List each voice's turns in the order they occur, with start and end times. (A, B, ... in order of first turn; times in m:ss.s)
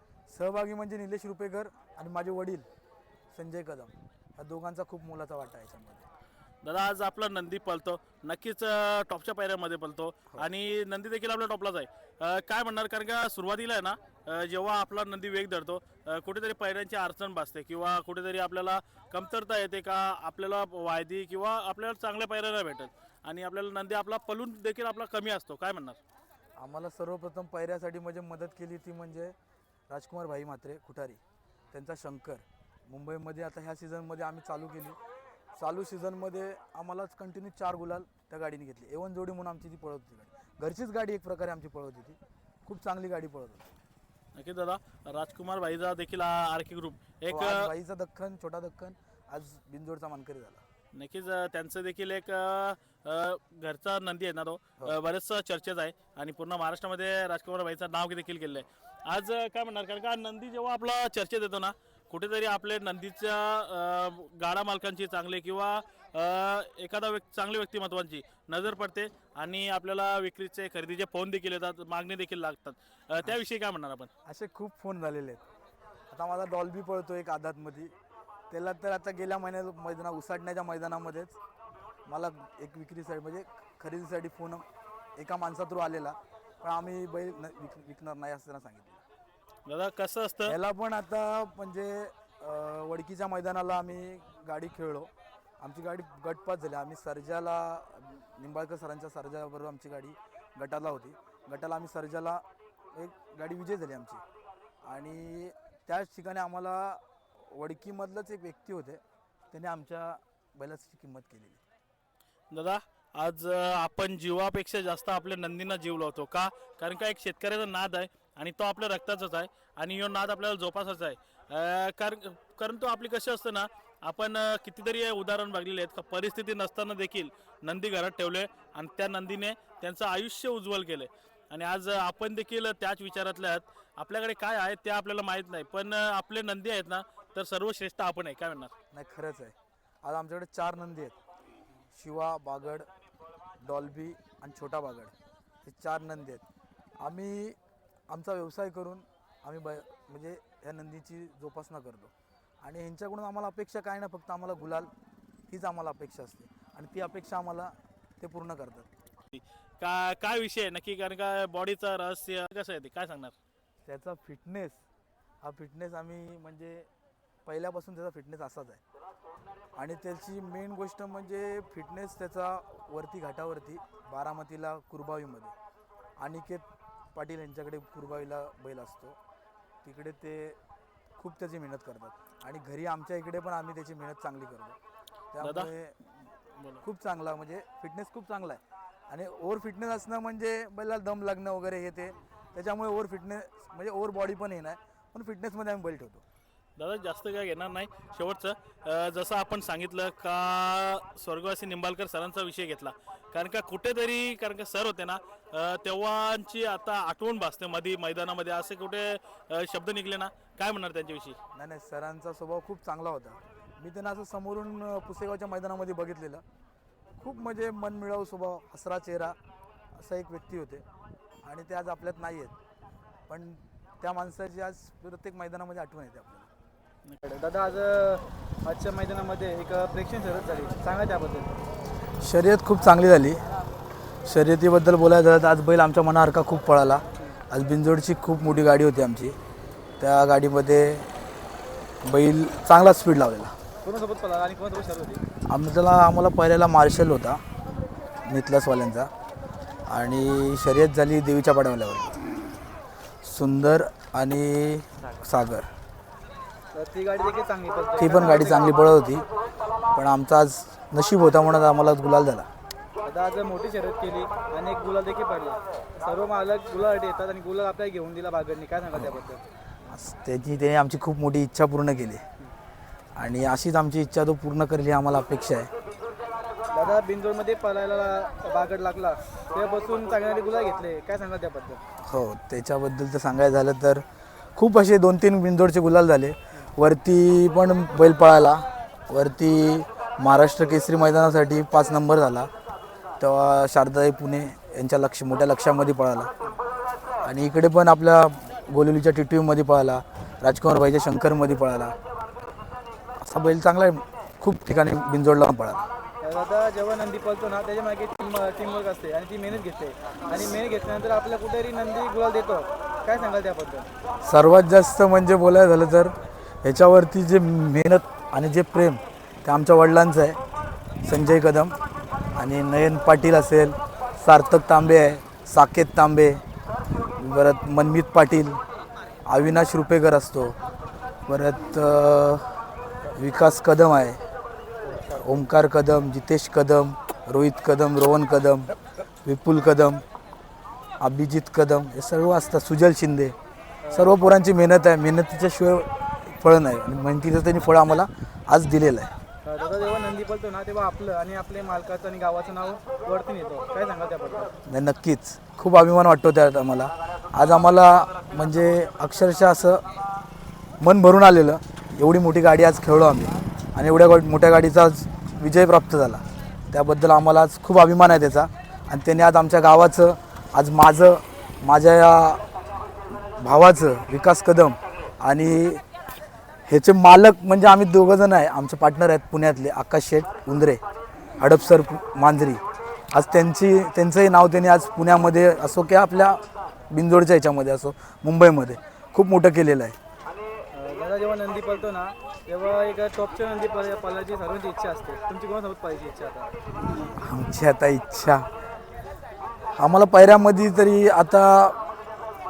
0:00.3-0:02.7 A
0:03.3-0:06.0 A
0:06.6-0:26.0 B
0:26.6-0:29.3 A
0:29.9-0:31.2 A
0:31.7-0:35.0 A
0:35.6-0:43.7 A
0:44.3-0:47.7 B
0:47.3-0:50.6 A
0:50.9-1:14.1 B
1:14.2-1:15.4 A
1:16.1-1:17.9 A
1:18.5-1:21.4 A
1:22.0-1:24.6 A
1:25.2-1:29.0 A
1:29.6-1:30.5 B
1:30.4-1:44.2 A
1:44.8-1:51.6 A
1:52.5-2:18.7 B
2:18.9-2:21.2 A
2:21.9-2:22.9 A
2:23.6-2:26.4 A
2:27.0-2:27.6 A
2:28.1-2:32.1 A
2:32.6-2:34.9 A
2:35.5-2:38.9 A
2:39.3-2:43.4 B
2:43.8-2:44.8 A
2:45.4-2:46.9 A
2:47.4-2:48.8 A
2:49.8-2:55.5 A
2:56.2-2:59.2 A
2:59.8-3:00.6 A
3:01.2-3:04.8 A
3:05.3-3:06.1 A
3:05.4-3:05.7 B
3:06.6-3:06.8 B
3:06.8-3:16.2 A
3:16.8-3:31.4 B
3:31.5-3:36.4 A
3:37.2-3:39.4 A
3:40.0-3:40.8 A
3:41.4-3:42.5 A
3:43.3-3:46.5 A
3:47.2-3:51.6 C
3:52.2-3:53.4 A
3:54.2-3:59.4 A
4:00.0-4:01.1 A
4:02.0-4:03.5 A
4:03.8-4:05.2 C
4:05.5-4:07.4 A
4:08.2-4:09.1 A
4:09.9-4:12.1 A
4:13.2-4:15.7 A
4:16.7-4:18.7 C
4:18.0-4:19.2 A
4:19.9-4:22.5 A
4:23.0-4:29.4 C
4:29.0-4:29.2 A
4:29.9-4:32.2 A
4:33.2-4:35.7 A
4:36.7-4:41.8 C
4:42.0-4:44.0 A
4:44.6-4:52.5 A
4:53.2-4:56.3 A
4:57.2-5:01.9 A
5:03.2-5:05.8 A
5:06.2-5:13.9 C
5:14.2-5:20.4 A
5:21.0-5:21.8 A
5:22.3-5:26.4 A
5:27.2-5:28.6 A
5:29.3-5:30.6 A
5:31.3-5:32.6 A
5:33.1-5:34.2 A
5:34.8-5:35.3 C
5:35.1-5:38.7 A
5:39.2-5:40.0 A
5:41.0-5:43.4 A
5:43.8-5:44.2 C
5:43.9-5:49.1 A
5:49.4-5:54.5 C
5:54.7-5:59.8 A
6:00.8-6:12.4 A
6:13.4-6:15.8 A
6:16.7-6:20.8 A
6:21.4-6:30.0 A
6:30.7-6:36.5 C
6:36.9-6:38.5 A
6:39.8-6:41.8 A